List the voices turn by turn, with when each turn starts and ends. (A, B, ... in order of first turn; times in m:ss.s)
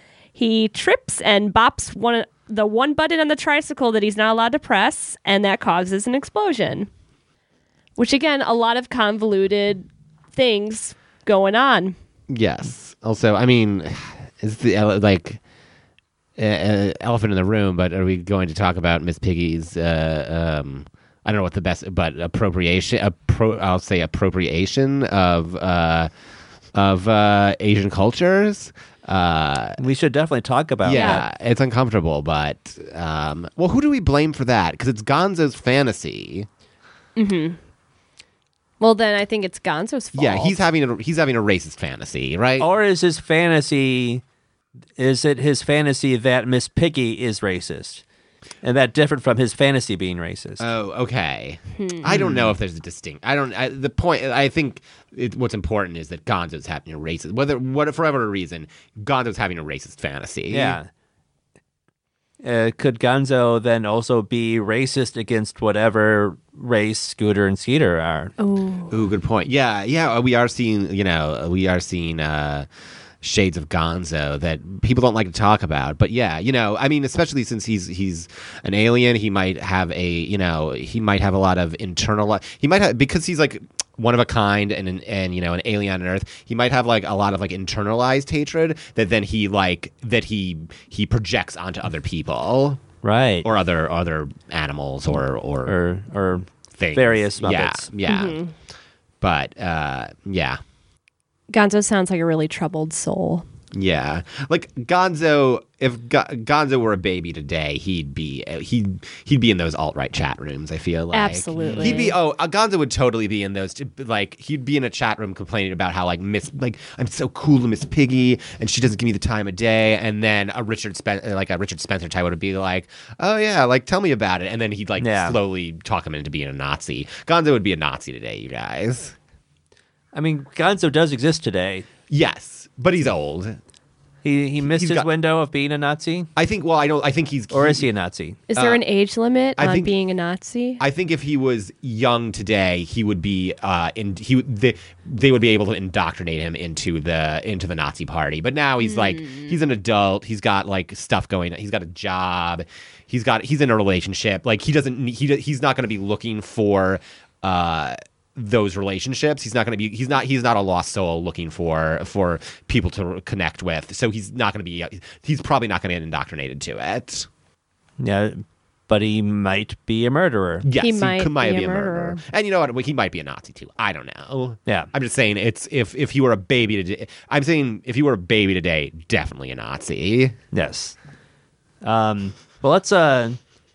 0:00.3-0:06.9 A
0:08.0-0:12.0 A
0:12.3-0:15.4 B
0:16.4-0:26.1 B
0:26.7-0:29.8 B
0:29.8-0:31.2 C
0:30.8-0:36.5 B
0:30.9-0:31.2 A
0:37.2-0:37.6 A
0:38.8-0:40.6 A
0:40.1-0:42.7 B
0:42.6-0:44.2 C
0:45.0-0:48.0 C
0:48.6-0:50.6 C
0:50.6-1:00.8 B
0:51.8-0:52.1 A
0:52.1-0:52.5 C
1:00.5-1:00.9 C
1:02.4-1:08.3 C
1:08.4-1:08.9 A
1:08.9-1:12.7 B
1:13.2-1:32.8 B
1:33.0-1:33.5 C
1:33.4-1:35.8 B
1:35.6-1:37.9 C
1:36.8-1:38.4 B
1:38.0-1:38.5 A
1:39.2-1:40.6 B
1:41.5-1:43.4 A
1:43.7-2:09.1 B
1:51.1-1:52.1 A
1:51.6-1:52.1 C
2:05.0-2:05.4 C
2:10.1-2:11.8 C
2:12.1-2:13.6 B
2:14.2-2:16.3 C
2:14.6-2:15.1 B
2:16.4-2:17.9 B
2:17.5-2:18.4 C
2:18.5-2:20.8 A
2:18.5-2:18.8 B
2:19.6-2:19.9 B
2:20.8-2:47.3 B
2:28.8-2:29.5 A
2:48.0-2:50.6 C
2:50.6-3:00.4 B
2:50.8-2:52.2 A
3:00.5-3:01.0 C
3:01.8-3:03.4 C